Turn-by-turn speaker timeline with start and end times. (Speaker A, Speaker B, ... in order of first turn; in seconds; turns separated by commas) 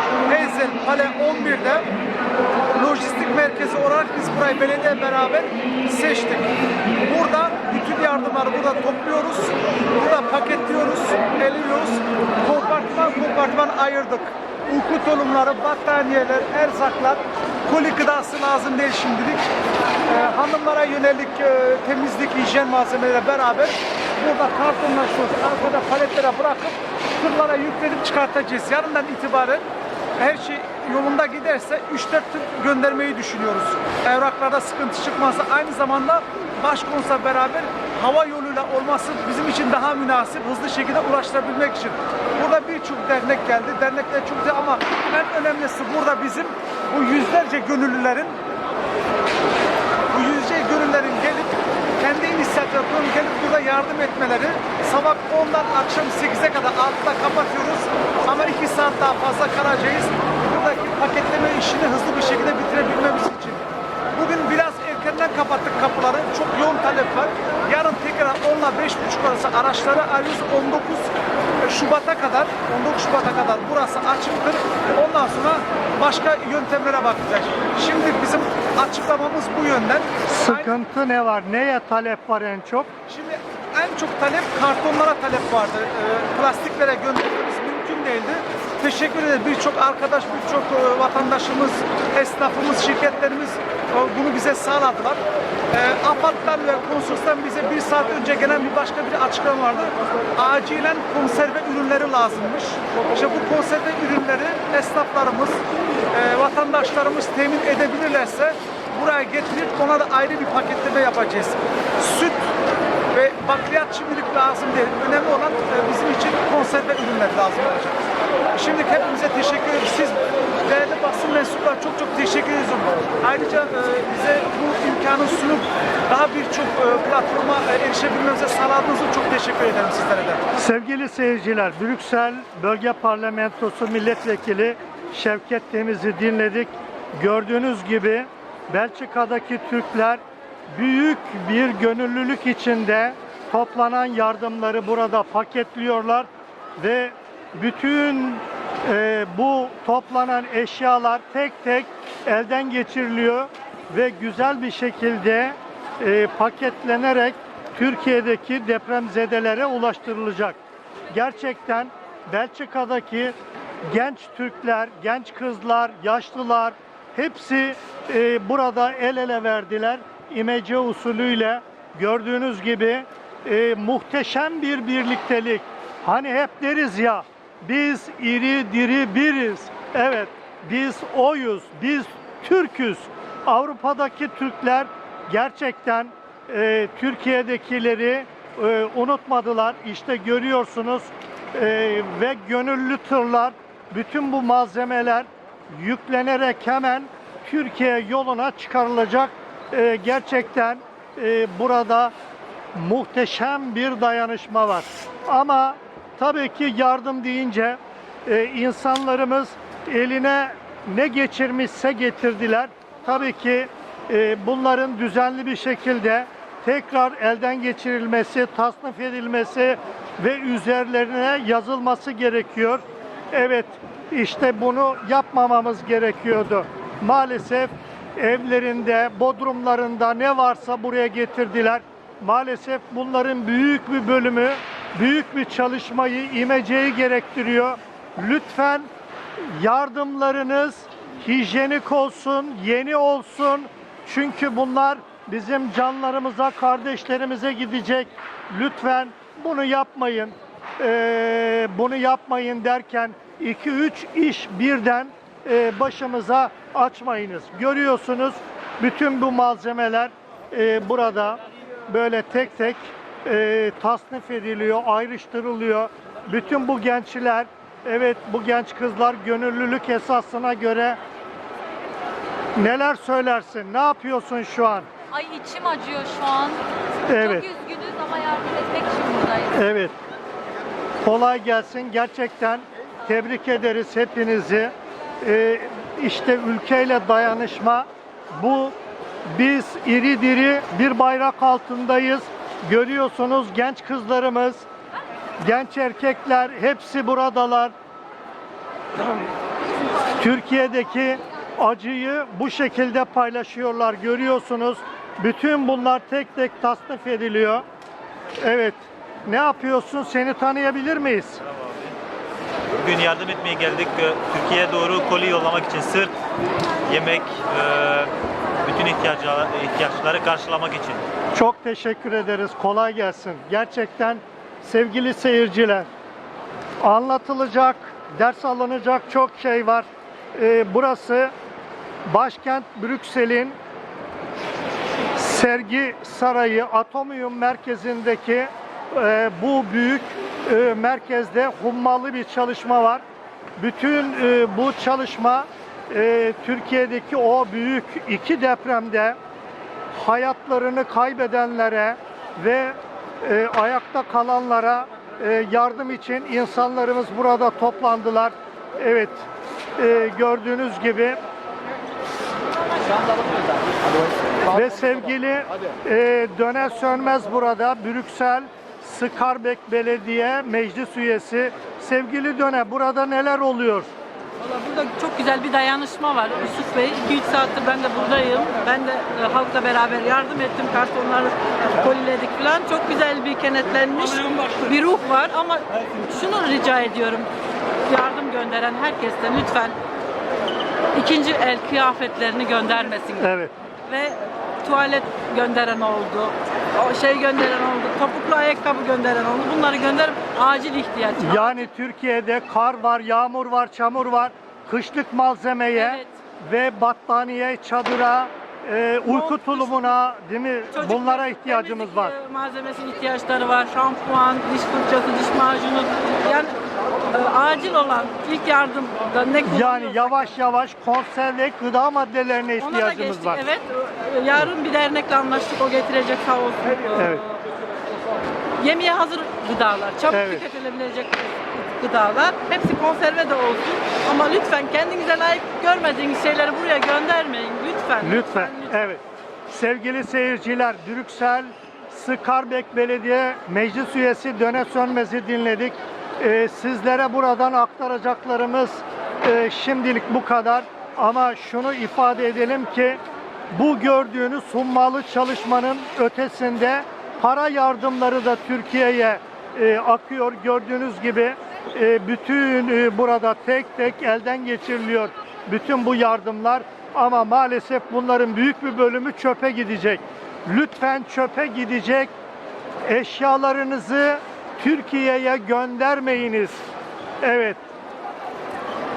Speaker A: 0.3-1.9, Speaker A: 2.7-6.5, Speaker A: 7.0-19.5, Speaker A: 20.1-29.6, Speaker A: 30.2-48.4, Speaker A: 50.1-71.1, Speaker A: 71.6-80.7, Speaker B: 80.3-82.9, Speaker A: 83.1-112.5, Speaker A: 113.1-118.0, Speaker A: 118.5-130.4, Speaker B: 130.6-140.2, Speaker B: 140.7-160.6, Speaker B: 161.1-163.3, Speaker B: 163.9-202.1, Speaker B: 202.7-238.9, Speaker B: 239.5-271.0, Speaker B: 272.6-274.9, Speaker C: 275.1-276.6, Speaker B: 277.1-277.5, Speaker C: 277.5-279.5, Speaker B: 279.5-279.9, Speaker B: 281.0-288.7, Speaker B: 289.3-294.7, Speaker B: 295.4-297.7, Speaker B: 300.2-307.6, Speaker B: 308.4-311.4, Speaker D: 311.5-311.9, Speaker D: 312.8-316.1, Speaker D: 316.9-321.0, Speaker B: 321.3-325.9, Speaker B: 326.8-331.3, Speaker B: 332.1-333.6, Speaker B: 335.1-343.0, Speaker B: 343.6-349.2, Speaker B: 349.9-359.2, Speaker B: 359.8-361.2, Speaker B: 364.5-373.9, Speaker E: 374.4-387.3, Speaker E: 387.9-389.7, Speaker E: 390.9-393.3, Speaker B: 393.2-393.5, Speaker E: 393.9-401.7, Speaker B: 401.2-412.1, Speaker E: 405.7-406.1, Speaker E: 409.1-409.9, Speaker E: 410.7-416.5, Speaker E: 417.1-420.3, Speaker B: 419.4-423.4, Speaker E: 422.6-427.2, Speaker B: 426.9-427.2, Speaker E: 428.6-438.7, Speaker B: 430.1-430.4, Speaker B: 438.0-453.0, Speaker B: 453.5-472.1, Speaker B: 472.9-476.6, Speaker B: 477.2-477.6